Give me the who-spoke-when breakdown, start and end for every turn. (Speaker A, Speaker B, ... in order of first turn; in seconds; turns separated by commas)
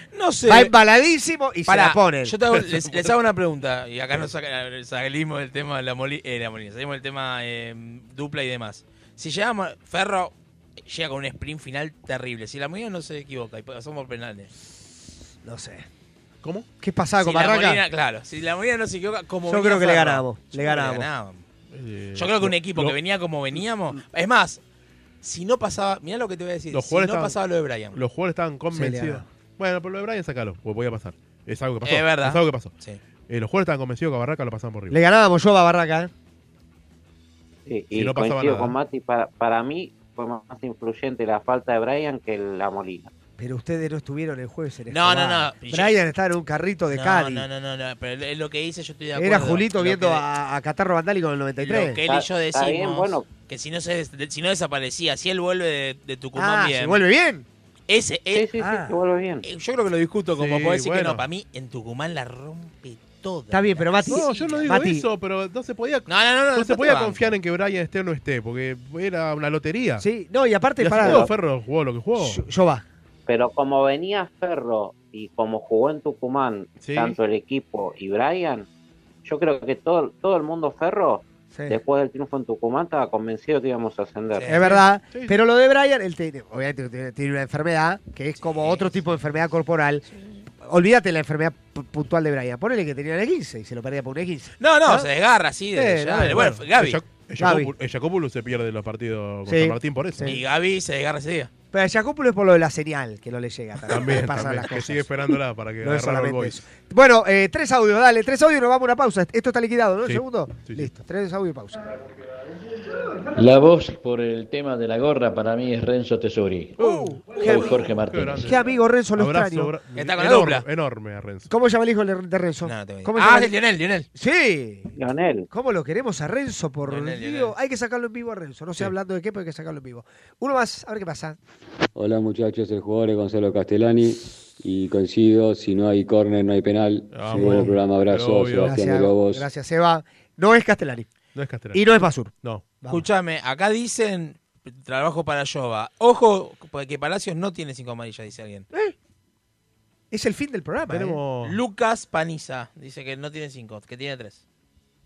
Speaker A: 0.1-0.7, Speaker B: 0.5-2.4, Speaker A: 1.7-10.3, Speaker A: 10.8-14.5, Speaker B: 15.4-15.9, Speaker B: 16.8-17.8, Speaker A: 17.2-21.4, Speaker B: 19.4-21.1, Speaker C: 21.7-23.0, Speaker A: 22.1-24.6, Speaker A: 25.2-28.0, Speaker C: 26.7-27.4, Speaker C: 27.9-32.7, Speaker B: 28.7-29.2, Speaker A: 31.8-33.0, Speaker C: 33.3-35.0, Speaker B: 34.9-36.1, Speaker D: 37.7-43.1, Speaker C: 37.9-38.7, Speaker B: 43.4-47.5, Speaker A: 44.9-46.0, Speaker A: 46.9-50.2, Speaker B: 49.1-52.0, Speaker A: 51.6-57.0, Speaker D: 52.1-53.2, Speaker B: 56.3-57.5, Speaker A: 57.9-58.5, Speaker D: 58.3-59.4, Speaker B: 58.6-58.9, Speaker A: 59.4-64.7, Speaker C: 60.4-61.2, Speaker B: 63.5-65.0, Speaker C: 64.1-70.0, Speaker A: 66.1-67.3, Speaker B: 70.0-71.3, Speaker C: 70.8-72.4, Speaker B: 72.2-72.8, Speaker D: 73.3-78.7, Speaker C: 76.8-77.2, Speaker D: 79.2-84.5, Speaker B: 81.5-81.8, Speaker A: 84.3-84.8, Speaker B: 84.5-90.0, Speaker A: 88.4-88.9, Speaker B: 90.6-95.1, Speaker A: 94.6-97.0, Speaker B: 95.7-96.6, Speaker C: 96.3-100.3, Speaker B: 97.4-97.7, Speaker B: 99.5-100.4, Speaker A: 100.2-101.5, Speaker B: 101.7-111.8, Speaker C: 103.9-106.6, Speaker C: 110.0-110.9, Speaker E: 113.3-116.8, Speaker C: 116.8-118.6, Speaker B: 116.8-119.7, Speaker E: 117.4-118.5, Speaker C: 119.2-121.5, Speaker A: 120.0-120.7, Speaker B: 121.5-123.5, Speaker A: 122.6-124.1, Speaker B: 124.1-124.9, Speaker D: 125.0-125.5, Speaker B: 125.5-131.4, Speaker A: 126.8-127.5, Speaker F: 131.9-139.4, Speaker C: 137.1-138.8, Speaker B: 138.6-141.1, Speaker C: 141.3-141.8, Speaker B: 141.7-143.1, Speaker A: 142.9-148.7, Speaker B: 150.1-151.2, Speaker C: 150.9-151.6, Speaker A: 151.4-154.4